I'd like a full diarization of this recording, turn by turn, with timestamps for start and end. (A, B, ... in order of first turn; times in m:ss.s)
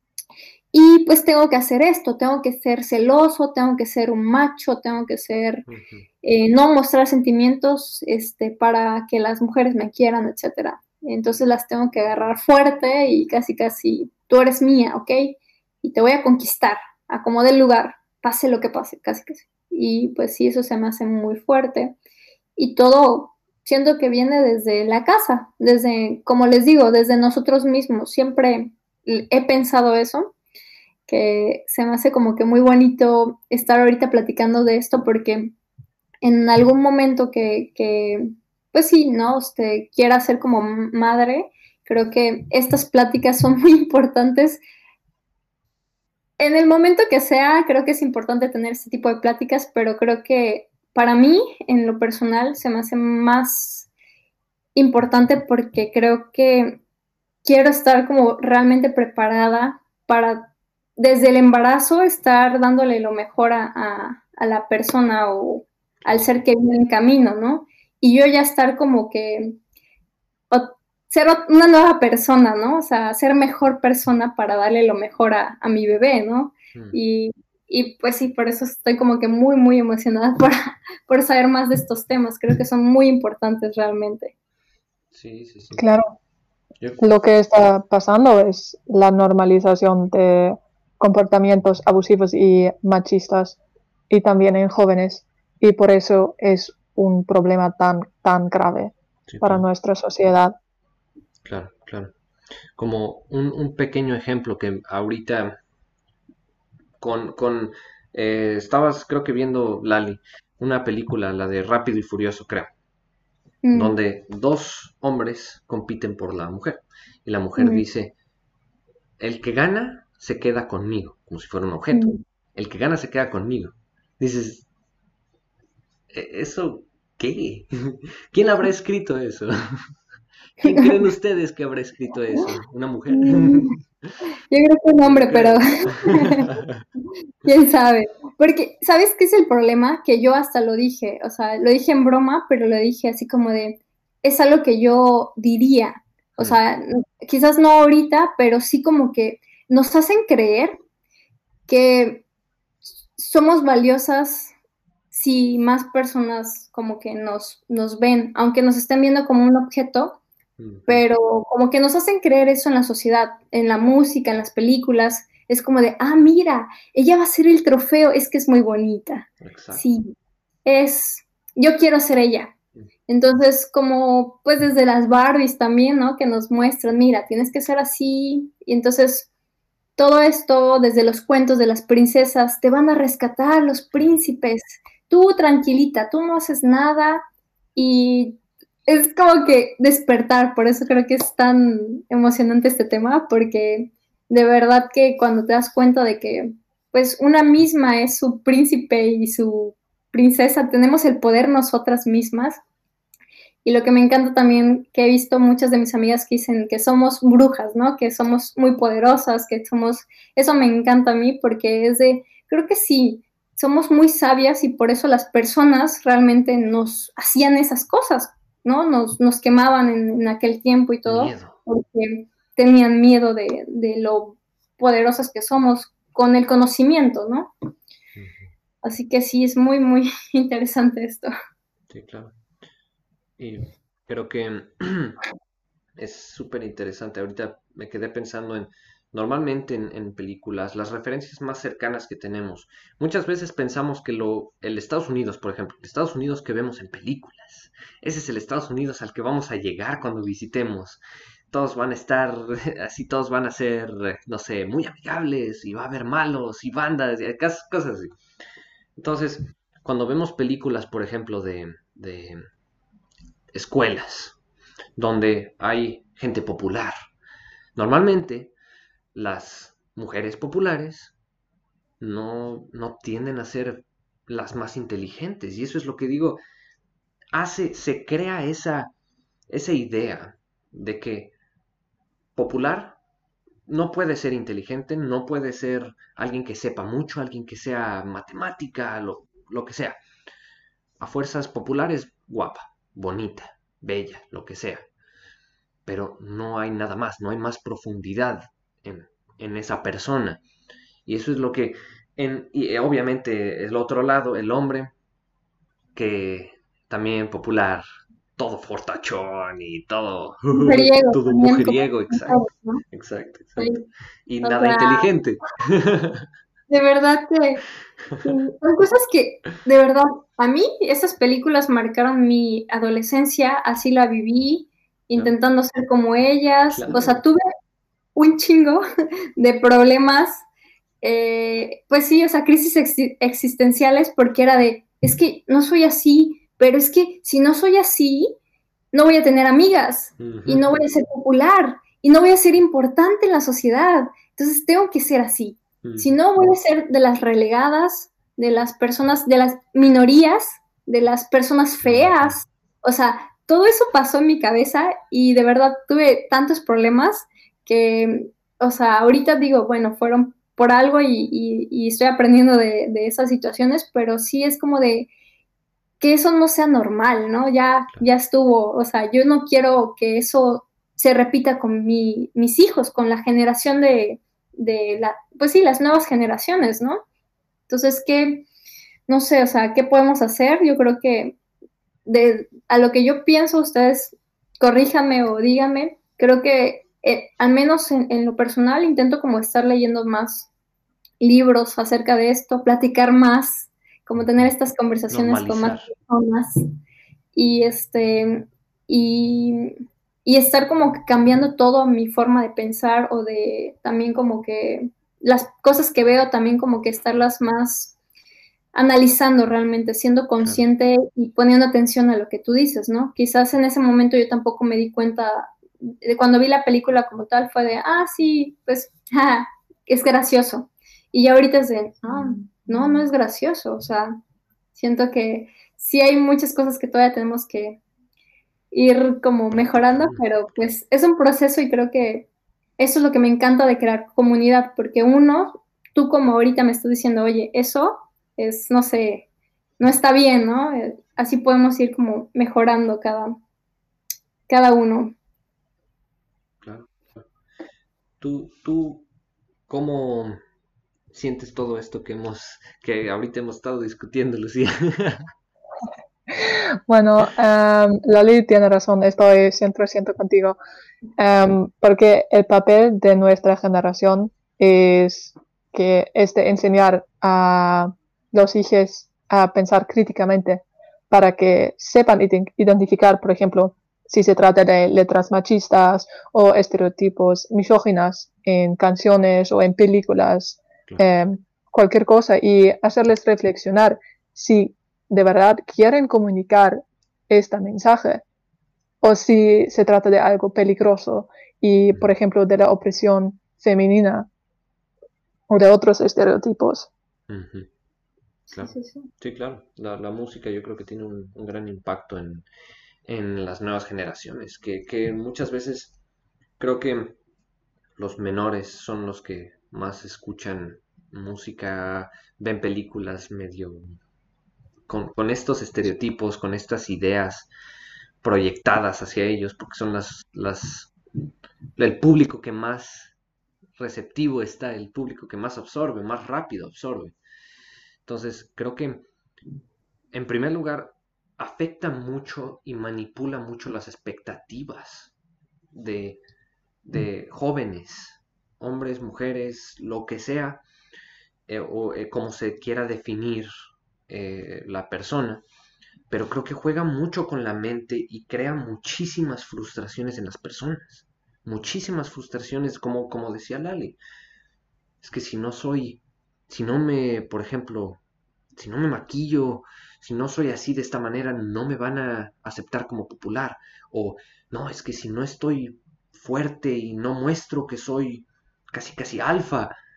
0:00.7-0:05.7 A
0:05.7-0:06.1 B
0:06.2-0:22.0 A
0:22.6-0:30.3 A
0:31.1-0:35.5 A
0:36.2-0:44.6 A
0:46.4-0:53.9 A
0:54.8-0:56.8 A
0:57.4-1:09.6 A
1:06.0-1:06.4 B
1:10.5-1:20.6 A
1:21.1-1:24.3 A
1:25.1-1:25.9 B
1:25.8-1:26.1 C
1:26.8-1:27.1 B
1:27.0-1:33.6 C
1:34.1-1:40.6 C
1:39.3-1:39.6 B
1:41.4-1:42.1 B
1:42.8-1:45.6 B
1:47.0-1:52.7 B
1:53.6-1:54.0 A
1:53.7-1:58.1 B
1:57.6-1:57.8 A
1:59.2-2:04.7 B
2:01.9-2:02.2 A
2:06.1-2:09.5 B
2:10.6-2:13.8 B
2:10.6-2:11.0 A
2:13.1-2:13.8 A
2:14.5-2:16.6 A
2:15.0-2:16.8 B
2:17.4-2:30.8 A
2:31.7-2:32.2 A
2:33.2-2:34.5 A
2:35.1-2:40.2 A
2:40.6-2:41.1 B
2:40.9-2:50.1 A
2:49.4-2:49.8 B
2:50.6-2:52.5 A
2:53.1-2:59.3 A
3:00.0-3:07.2 A
3:07.8-3:22.6 A
3:23.6-3:47.5 A
3:41.1-3:41.6 B
3:48.2-3:48.5 B
3:48.8-3:51.3 A
3:51.9-3:52.3 B
3:53.4-3:55.2 B
3:56.0-4:18.1 B
4:19.0-4:22.5 B
4:23.5-4:24.4 B
4:25.0-4:26.9 B
4:27.8-4:28.6 B
4:29.2-4:31.2 B
4:32.0-4:36.4 B
4:37.3-4:38.9 B
4:39.5-4:41.3 B
4:42.4-4:43.0 B
4:43.7-4:50.0 B
4:51.0-4:54.9 B
4:55.9-5:00.4 B
5:01.1-5:04.9 B
5:06.0-5:07.8 B
5:08.4-5:12.4 B
5:10.5-5:12.8 A
5:12.9-5:16.3 B
5:13.6-5:13.8 A
5:14.4-5:15.1 A
5:16.7-5:17.6 A
5:18.2-5:27.4 A
5:26.7-5:27.2 B
5:28.2-5:28.8 A
5:29.4-5:30.4 A
5:31.0-5:38.3 A
5:38.9-6:05.1 A
5:40.2-5:40.8 B
5:45.8-5:46.2 B
5:51.8-5:52.4 B
6:06.0-6:17.0 A
6:17.7-6:18.5 A
6:19.1-6:21.4 A
6:22.1-6:30.5 A
6:31.2-6:36.6 A
6:34.2-6:34.5 B
6:35.1-6:35.9 B
6:37.4-6:48.0 A
6:48.7-7:04.2 A
7:04.8-7:07.8 A
7:08.7-7:12.3 A
7:09.5-7:10.7 B
7:12.8-7:19.3 A
7:19.8-7:23.4 A
7:24.5-7:25.2 A
7:26.6-7:27.2 B
7:28.2-7:29.1 B
7:29.7-7:30.4 B
7:31.1-7:35.3 B
7:36.3-7:40.6 C
7:41.2-8:08.2 C
8:09.0-8:14.3 C
8:15.5-8:16.9 C
8:17.3-8:17.7 B
8:18.5-8:22.5 B
8:18.6-8:19.1 A
8:23.1-8:26.0 B
8:26.6-8:27.2 B
8:28.0-8:34.0 B
8:34.9-8:37.5 B
8:38.2-8:41.0 B
8:41.8-8:43.2 B
8:43.8-8:47.2 B
8:48.0-8:49.1 B
8:50.1-8:55.1 B
8:55.7-8:56.2 B
8:56.8-9:00.6 B
9:01.5-9:03.5 B
9:04.1-9:05.4 B
9:06.1-9:14.0 B
9:15.0-9:18.0 B
9:18.6-9:29.8 B